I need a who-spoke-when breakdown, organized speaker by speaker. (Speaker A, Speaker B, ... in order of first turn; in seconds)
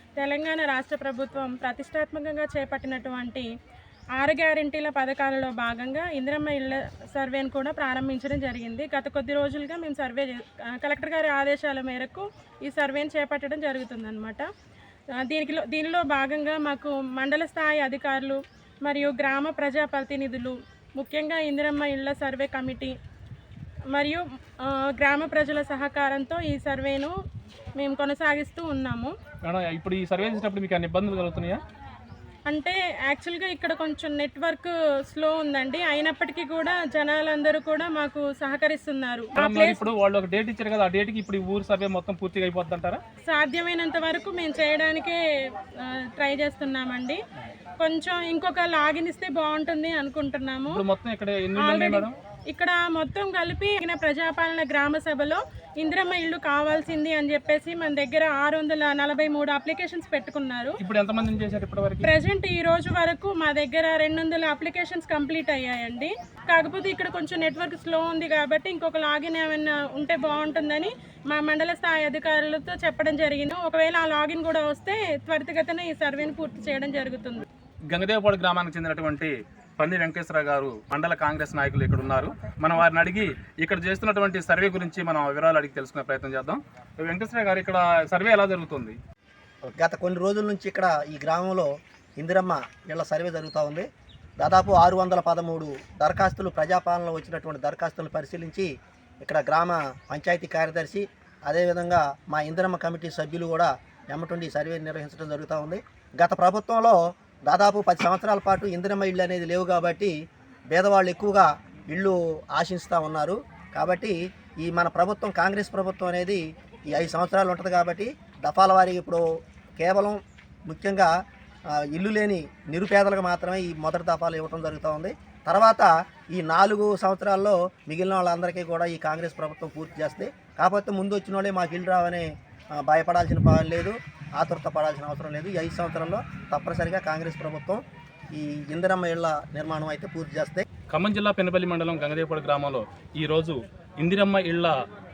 Speaker A: 0.2-3.5, 4.2-14.5, 15.2-22.9, 23.9-27.1, 27.8-29.1, 32.5-39.9, 43.2-47.2, 47.8-50.8, 51.6-60.8, 62.0-77.5
Speaker B: 29.4-31.6, 39.4-43.0, 50.7-52.2, 60.8-62.1, 77.9-89.0, 140.9-144.8
Speaker C: 89.6-93.9, 94.4-98.7, 99.2-110.2, 110.7-119.2, 119.8-121.1, 121.7-140.7